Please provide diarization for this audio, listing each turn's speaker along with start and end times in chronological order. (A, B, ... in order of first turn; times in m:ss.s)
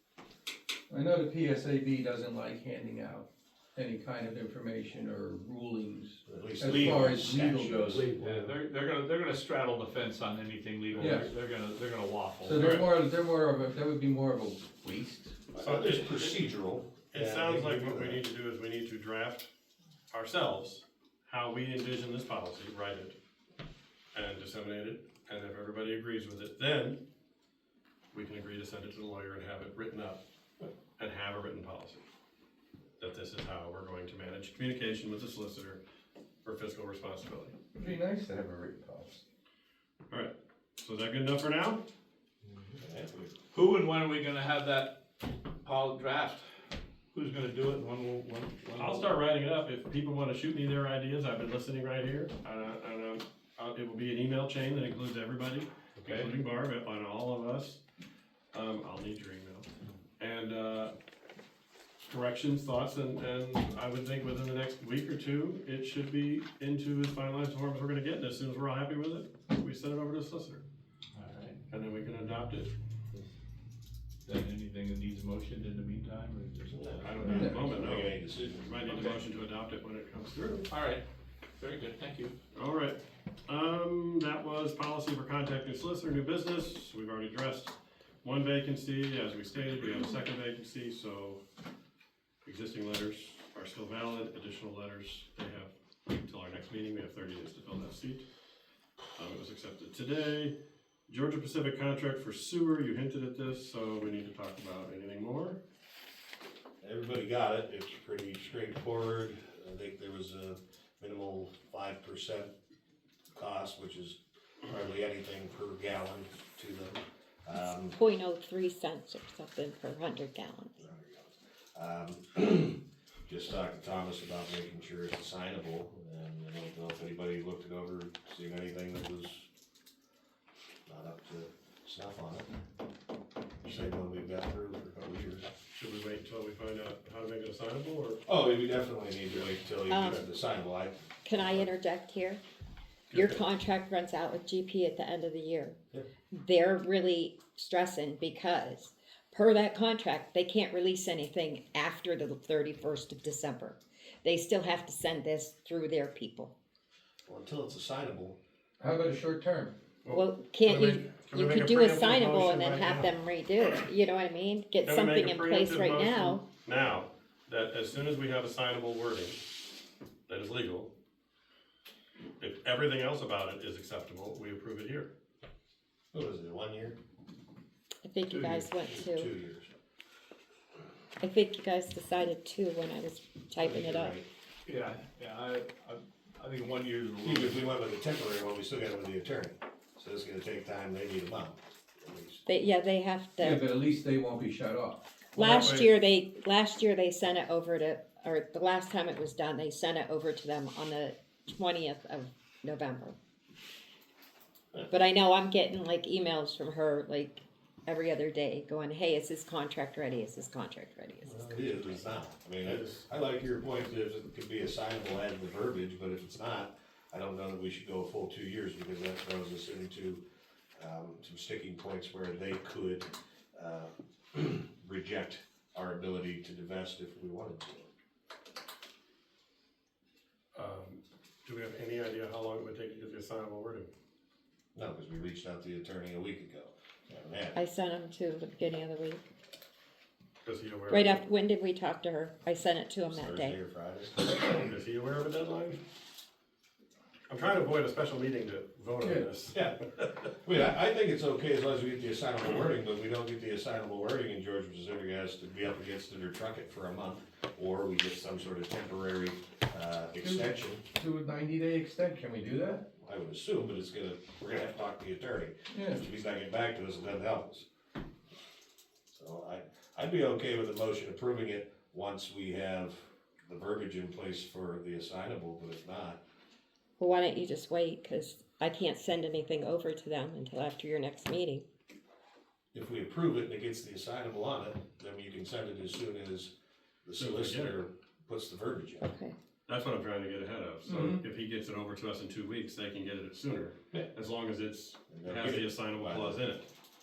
0:00.9-0:08.5 A
0:06.3-0:08.0 B
0:06.6-0:07.0 C
0:07.9-0:12.8 C
0:11.0-0:11.3 A
0:12.4-0:15.4 A
0:12.6-0:12.9 D
0:15.5-0:18.2 B
0:15.6-0:16.4 D
0:17.1-0:19.5 D
0:20.1-0:23.2 D
0:24.1-0:27.0 D
0:28.1-0:30.2 D
0:31.0-0:32.0 D
0:33.0-0:35.8 D
0:36.4-0:37.6 D
0:37.8-0:39.2 A
0:40.1-0:41.8 D
0:42.8-0:43.3 B
0:43.5-0:45.0 C
0:45.6-0:46.4 C
0:47.1-0:49.1 C
0:48.8-0:57.8 D
0:56.0-0:56.4 C
0:58.5-0:59.7 D
1:00.2-1:00.9 D
1:02.0-1:10.6 D
1:11.1-1:11.6 C
1:11.7-1:12.7 D
1:14.2-1:16.8 C
1:16.7-1:18.7 B
1:17.0-1:20.7 D
1:17.2-1:17.6 A
1:18.9-1:19.2 C
1:20.7-1:21.0 C
1:21.6-1:22.4 C
1:22.5-1:31.4 D
1:32.4-1:38.2 D
1:39.2-1:40.6 D
1:41.1-1:45.6 D
1:46.8-1:52.5 B
1:53.3-1:58.0 B
1:57.8-2:00.8 E
2:00.8-2:09.5 B
2:10.9-2:12.5 B
2:13.6-2:15.5 B
2:15.8-2:18.2 D
2:18.3-2:21.7 B
2:19.9-2:20.3 E
2:21.2-2:22.4 E
2:23.1-2:25.8 E
2:23.1-2:23.4 B
2:26.3-2:36.5 E
2:37.3-2:38.4 B
2:38.8-2:39.8 A
2:40.0-2:43.1 D
2:40.1-2:46.4 E
2:44.8-2:49.4 D
2:50.3-2:50.9 D
2:52.4-2:55.1 D
2:56.1-2:57.0 B
2:58.0-2:59.3 E
2:58.3-2:58.7 C
2:58.9-2:59.7 B
3:01.2-3:04.2 E
3:03.6-3:04.3 B
3:04.7-3:07.6 C
3:07.2-3:12.4 B
3:12.5-3:13.6 E
3:13.4-3:15.0 A
3:15.4-3:23.2 E
3:24.9-3:31.6 E
3:31.2-3:40.2 B
3:32.6-3:33.1 D
3:40.8-3:47.9 B
3:50.6-3:53.9 D
3:54.8-3:57.6 B
3:57.6-3:59.3 E
4:00.4-4:01.2 D
4:00.9-4:03.6 E
4:03.1-4:04.2 B
4:04.2-4:05.8 D
4:07.3-4:09.7 D
4:09.0-4:09.3 A
4:09.5-4:20.8 B
4:20.2-4:22.9 A
4:23.0-4:27.7 B
4:25.7-4:26.0 A
4:29.1-4:36.2 B
4:37.0-4:41.6 E
4:42.7-4:46.5 B
4:47.0-4:49.1 B
4:47.2-4:47.8 D
4:49.0-4:49.4 E
4:49.7-4:56.7 D
4:50.9-4:51.2 A
4:55.1-4:56.4 B